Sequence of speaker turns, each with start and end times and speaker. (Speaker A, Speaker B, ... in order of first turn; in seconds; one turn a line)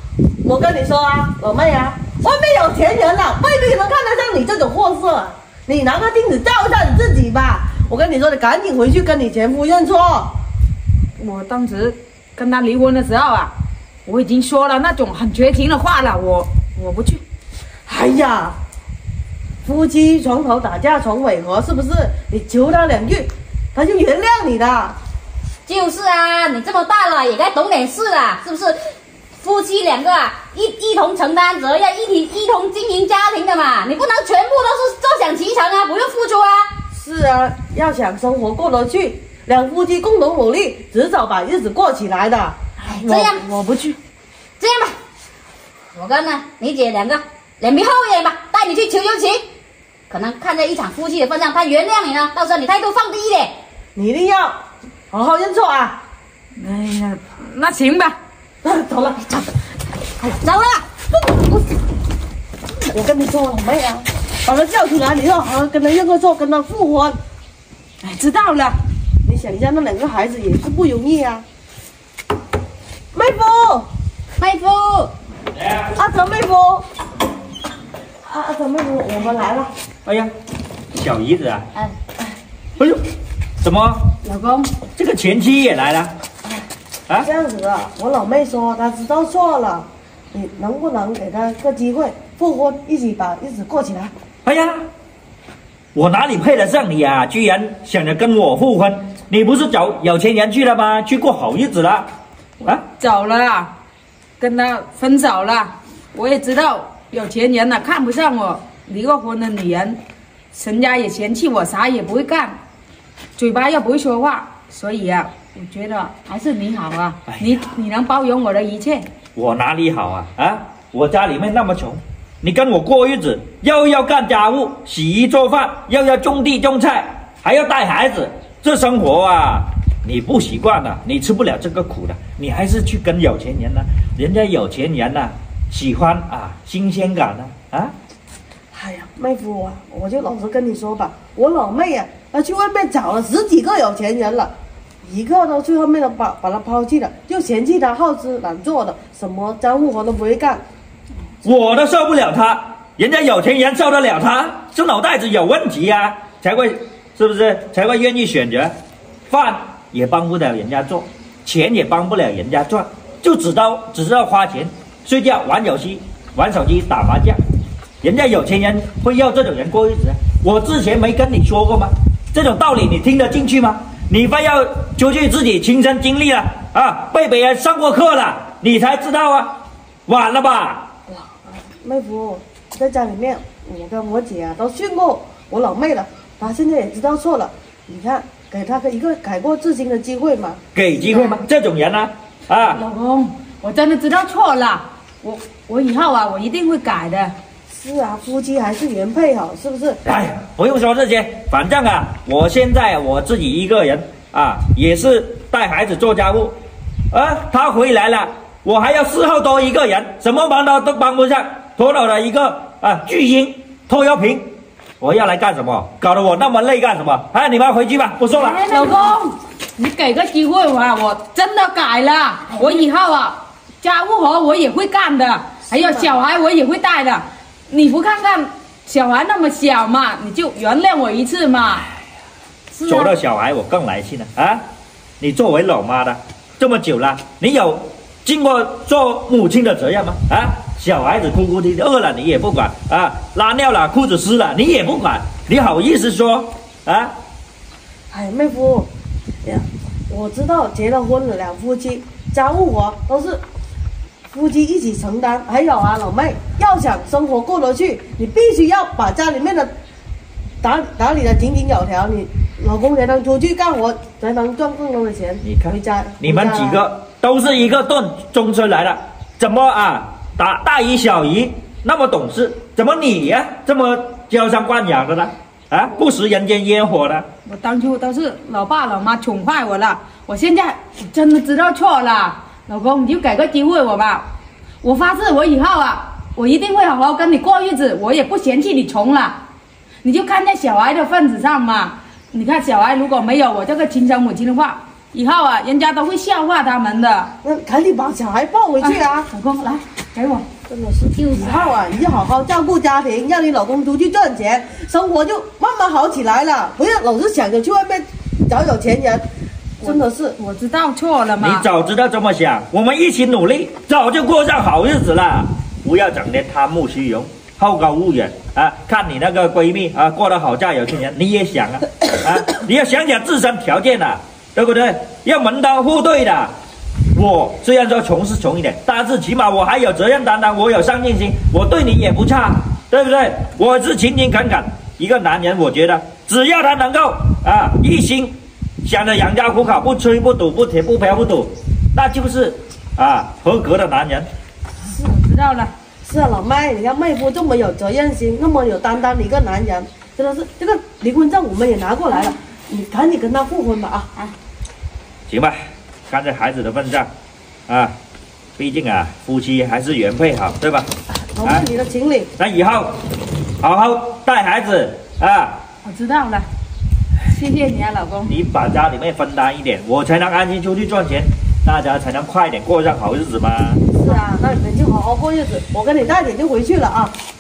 Speaker A: 0.4-10.3
Speaker B: 11.2-13.5
Speaker B: 14.1-17.2
Speaker A: 17.9-18.6
Speaker A: 19.6-25.0
Speaker C: 25.7-28.8
Speaker C: 29.4-36.7
Speaker A: 36.9-42.6
Speaker B: 42.8-44.0
Speaker C: 42.9-43.4
Speaker C: 44.6-45.0
Speaker C: 45.9-49.5
Speaker C: 50.1-53.5
Speaker A: 54.0-54.6
Speaker A: 55.1-56.0
Speaker B: 56.6-58.2
Speaker A: 58.6-59.5
Speaker C: 60.4-60.9
Speaker A: 61.1-61.6
Speaker A: 62.9-67.2
Speaker B: 68.0-68.8
Speaker A: 69.2-71.5
Speaker A: 73.1-73.9
Speaker C: 74.4-75.1
Speaker D: 75.6-75.9
Speaker A: 75.9-76.9
Speaker A: 78.2-79.7
Speaker D: 80.0-80.3
Speaker D: 80.9-81.7
Speaker D: 83.6-84.1
Speaker B: 84.2-84.7
Speaker D: 85.0-86.1
Speaker A: 87.2-94.1
Speaker D: 94.5-94.8
Speaker D: 96.0-102.1
Speaker B: 102.6-103.7
Speaker B: 104.4-110.0
Speaker B: 110.5-112.6
Speaker B: 113.4-119.1
Speaker D: 117.3-117.7
Speaker D: 119.3-137.9
Speaker A: 138.7-144.5
Speaker A: 145.0-150.6
Speaker D: 151.4-158.7
Speaker D: 159.3-167.4
Speaker D: 168.0-179.5
Speaker D: 180.1-180.9
Speaker A: 181.1-190.6
Speaker D: 190.7-192.8
Speaker B: 192.7-197.3
Speaker A: 197.7-200.0
Speaker D: 200.1-206.5
Speaker D: 207.1-214.5
Speaker D: 215.0-218.7
Speaker B: 218.4-231.9
Speaker B: 232.7-233.2
Speaker D: 232.8-234.6
Speaker D: 235.2-247.1
Speaker A: 248.1-248.9
Speaker A: 249.4-253.4
Speaker A: 254.3-259.7
Speaker A: 260.6-266.9
Speaker D: 265.4-277.2
Speaker B: 277.4-284.2
Speaker B: 284.8-289.4
Speaker B: 290.0-297.3
Speaker A: 297.4-299.3
Speaker B: 298.8-300.5
Speaker A: 300.7-309.2
Speaker A: 309.8-310.4
Speaker B: 309.8-311.7
Speaker D: 311.4-326.5
Speaker D: 327.1-344.3
Speaker B: 344.9-345.7
Speaker A: 346.0-354.1
Speaker D: 355.3-355.6
Speaker D: 356.1-357.1
Speaker D: 357.7-357.9
Speaker D: 358.6-360.9
Speaker A: 361.3-362.3
Speaker D: 362.4-362.9
Speaker D: 363.6-365.6
Speaker B: 365.8-366.5
Speaker B: 367.3-368.3
Speaker D: 368.3-373.9
Speaker A: 373.9-377.1
Speaker B: 374.0-374.4